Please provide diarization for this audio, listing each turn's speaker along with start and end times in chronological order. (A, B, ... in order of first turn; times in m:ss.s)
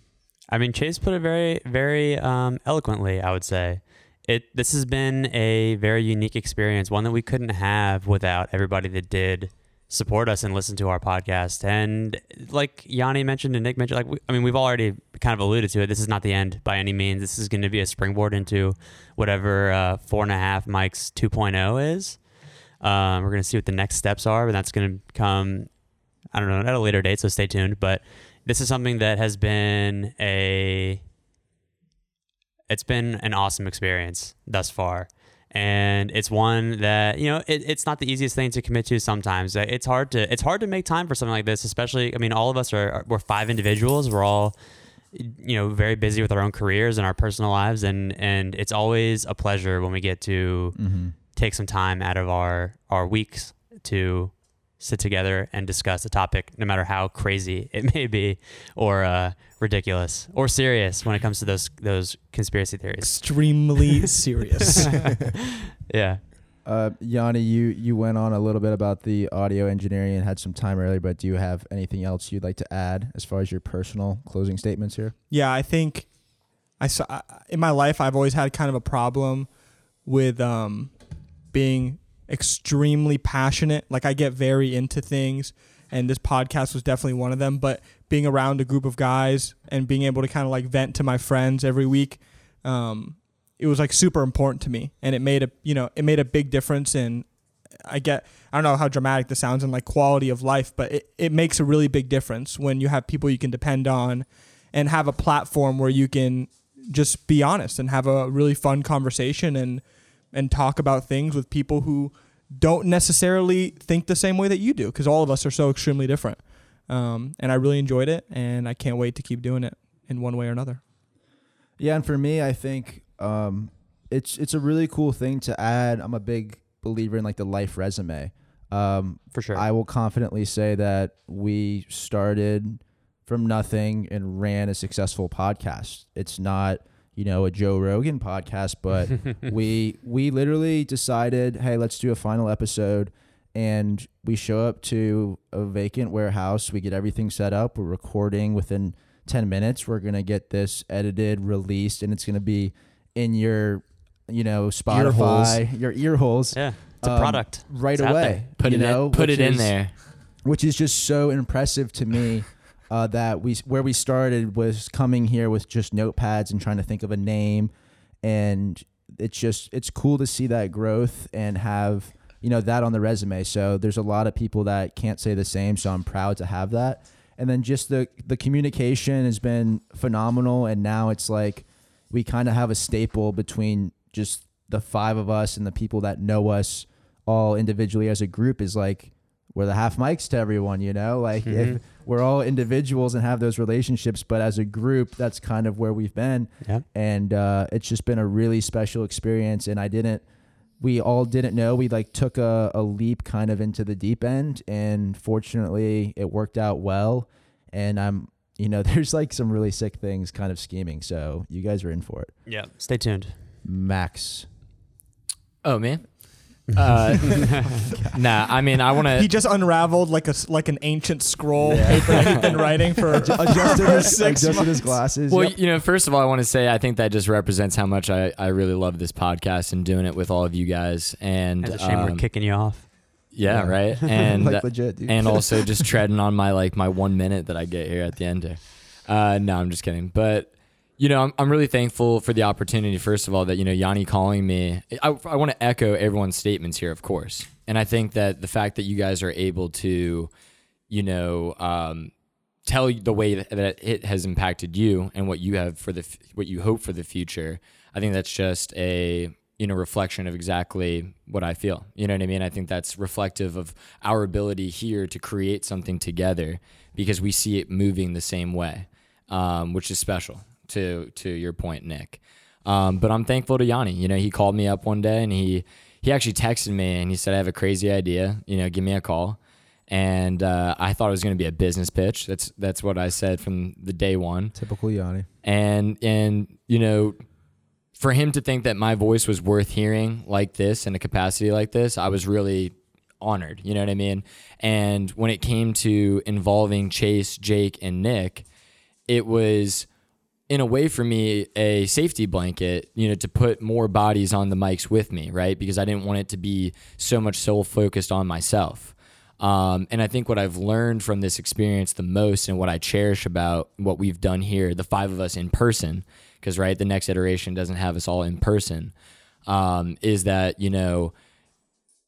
0:00.5-0:22.2 A
0:22.8-0:25.7 A
0:26.3-0:31.0 A
0:32.7-0:44.6 A
0:45.1-0:50.8 A
0:50.8-0:51.1 B
0:51.3-1:03.3 A
1:03.0-1:04.9 C
1:04.7-1:05.4 A
1:05.9-1:06.2 A
1:06.6-1:15.1 B
1:15.3-1:16.1 C
1:16.8-1:19.5 C
1:20.0-1:20.9 C
1:21.5-1:37.3 C
1:37.8-2:00.8 C
2:01.8-2:39.7 B
2:09.3-2:09.6 A
2:34.9-2:35.6 C
2:36.5-2:38.5 A
2:38.6-2:39.9 D
2:40.4-2:47.7 B
2:48.2-3:20.2 B
3:11.4-3:11.8 A
3:20.8-3:32.3 B
3:32.4-3:33.3 A
3:33.6-3:34.5 B
3:35.6-3:36.0 D
3:36.7-3:37.8 A
3:36.7-3:39.3 D
3:39.1-3:45.0 C
3:41.6-3:42.6 B
3:41.9-3:42.4 D
3:43.1-3:45.6 B
3:45.3-3:52.2 D
3:51.6-3:52.9 A
3:53.3-4:10.3 D
3:53.5-3:55.6 B
3:54.0-3:54.3 A
4:10.9-4:12.1 D
4:12.6-4:44.5 D
4:44.5-4:45.3 B
4:45.4-4:47.2 D
4:47.9-4:58.4 D
4:59.1-4:59.9 D
5:00.5-5:18.9 D
5:19.4-5:21.1 D